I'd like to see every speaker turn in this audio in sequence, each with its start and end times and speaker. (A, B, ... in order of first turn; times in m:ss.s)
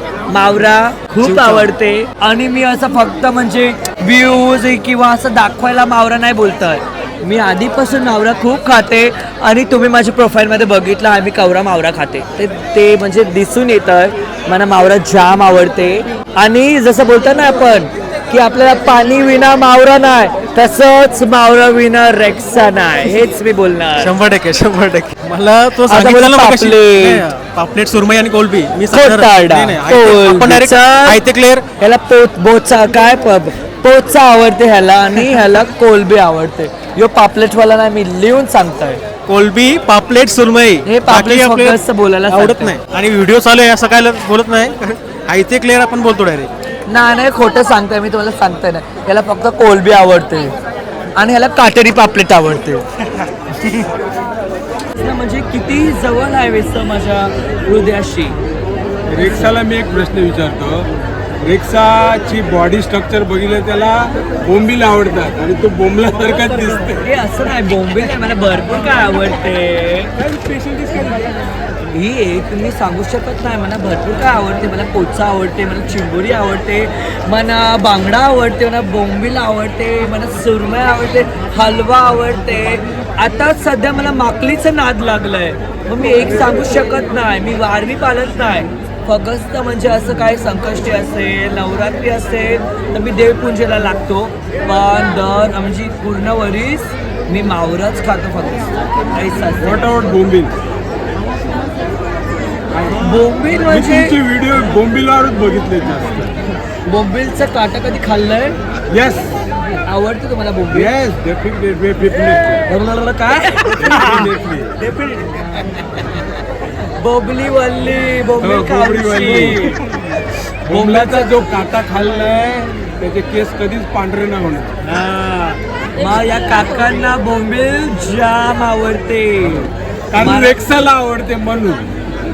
0:00.3-0:24.1 A
0:01.2-0:01.7 B
0:24.0-0:31.6 B
0:25.9-0:27.2 A
0:28.9-0:31.2 A
0:31.8-0:39.0 A
0:39.3-0:46.5 B
0:40.8-0:42.8 A
0:46.9-0:50.5 A
0:51.2-0:52.8 A
0:55.0-0:58.4 A
0:59.1-1:00.8 C
0:59.2-0:59.5 A
1:01.4-1:07.0 C
1:06.3-1:07.0 B
1:07.0-1:10.1 A
1:10.2-1:11.4 B
1:11.9-1:39.9 A
1:39.6-1:40.5 C
1:42.7-1:46.3 C
1:43.0-1:44.2 A
1:46.9-1:48.6 A
1:48.9-1:49.3 C
1:49.9-1:50.9 A
1:50.7-1:52.6 C
1:52.7-1:54.3 A
1:53.7-1:54.9 C
1:57.0-1:59.8 A
1:58.4-1:59.8 C
2:00.7-2:04.8 C
2:00.7-2:01.5 A
2:04.8-2:10.6 A
2:10.1-2:11.9 C